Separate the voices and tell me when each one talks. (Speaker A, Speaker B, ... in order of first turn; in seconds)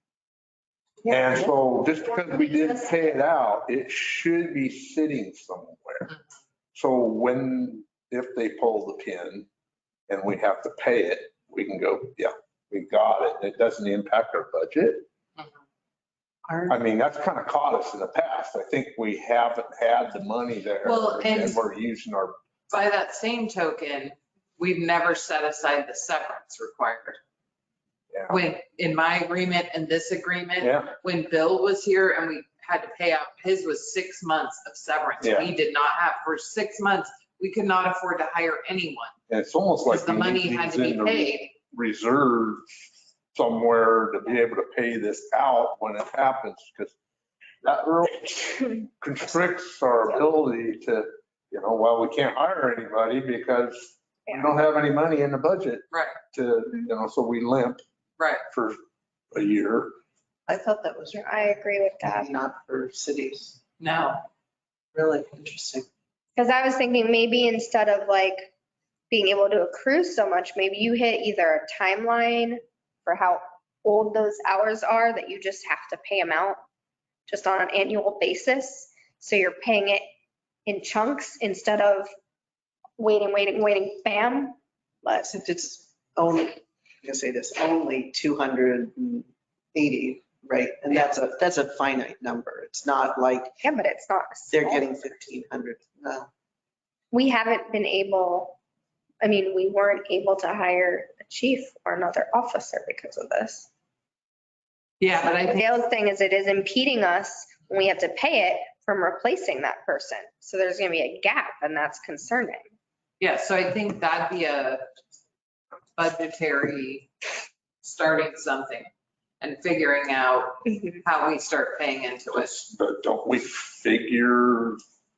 Speaker A: 1.1-1.4, 61.1-62.3, 66.3-68.5, 69.1-76.6, 77.3-80.0, 80.7-82.1, 83.0-85.3, 93.6-95.1, 97.1-98.6, 99.2-103.7, 105.5-112.6
Speaker B: 1.1-6.1, 6.7-9.5, 10.1-15.1, 16.7-22.3, 30.6-30.9, 35.2-35.5, 39.3-42.6, 43.3-47.0, 47.6-57.8, 58.5-58.8, 59.3-59.9, 122.3-124.8
Speaker C: 16.5-16.7, 60.5-61.5, 62.1-63.6, 64.9-65.8, 85.2-93.5, 94.5-96.3
Speaker D: 20.8-21.6, 22.7-27.2, 28.3-39.1, 39.9-41.5, 55.9-56.2, 58.2-58.4, 63.8-64.2, 105.0-105.7, 113.2-114.8, 116.0-117.1, 117.8-118.9, 119.4-122.5